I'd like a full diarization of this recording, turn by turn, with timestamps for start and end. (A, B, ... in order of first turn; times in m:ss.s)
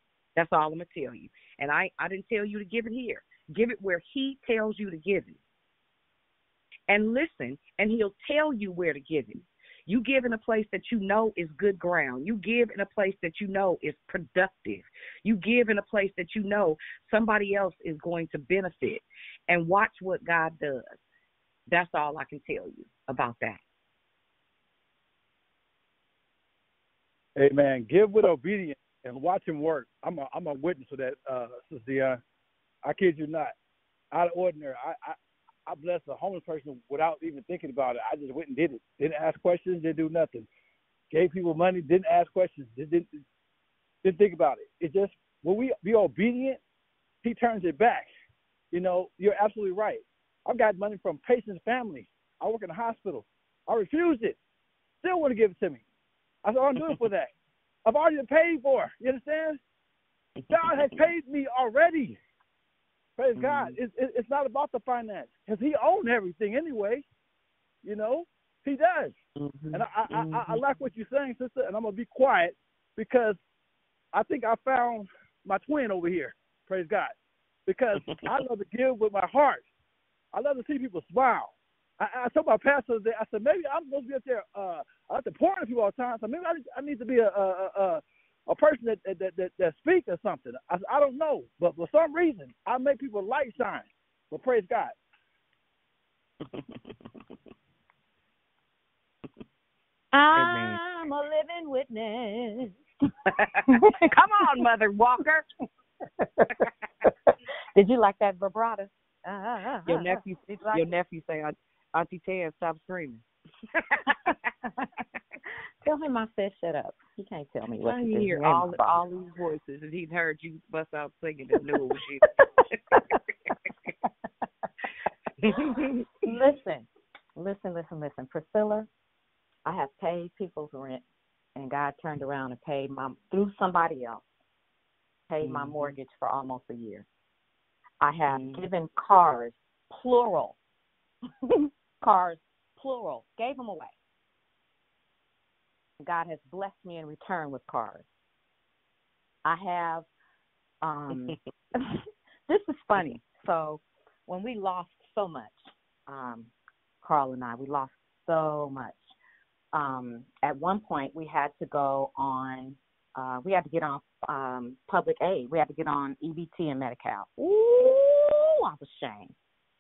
0:00.4-0:05.4 A
0:06.9-0:20.9 A
0:21.7-0:23.6 A
0:27.4-0:32.2 B
0:32.8-0:33.5 B
0:34.1-0:35.2 B
0:35.7-0:40.5 B
0:41.1-0:43.2 B
0:44.0-0:46.6 B
0:47.2-0:48.1 B
0:48.7-0:54.4 B
0:55.0-0:55.8 B
0:56.4-0:57.3 B
0:57.9-0:59.6 B
1:00.5-1:01.1 A
1:00.5-1:02.2 B
1:03.2-1:07.0 B
1:03.4-1:03.8 A
1:07.8-1:09.1 B
1:09.4-1:10.6 A
1:09.7-1:13.4 B
1:14.1-1:17.1 B
1:17.7-1:19.6 B
1:18.0-1:18.4 A
1:20.3-1:35.0 B
1:36.4-1:37.2 A
1:40.1-1:42.8 C
1:40.4-1:40.8 A
1:43.4-1:45.4 A
1:43.7-1:44.1 C
1:47.8-1:50.9 C
1:49.9-1:53.2 A
1:55.8-1:59.0 C
1:57.8-2:02.8 A
2:05.4-2:05.8 A
2:05.8-2:08.9 C
2:09.6-2:11.0 C
2:11.6-2:14.2 C
2:15.3-2:17.1 C
2:15.4-2:15.9 A
2:18.0-2:20.6 C
2:18.3-2:18.6 A
2:22.0-2:23.9 C
2:26.0-2:28.1 C
2:29.4-2:30.1 C
2:30.8-2:31.9 C
2:32.5-2:39.1 C
2:39.7-2:49.3 C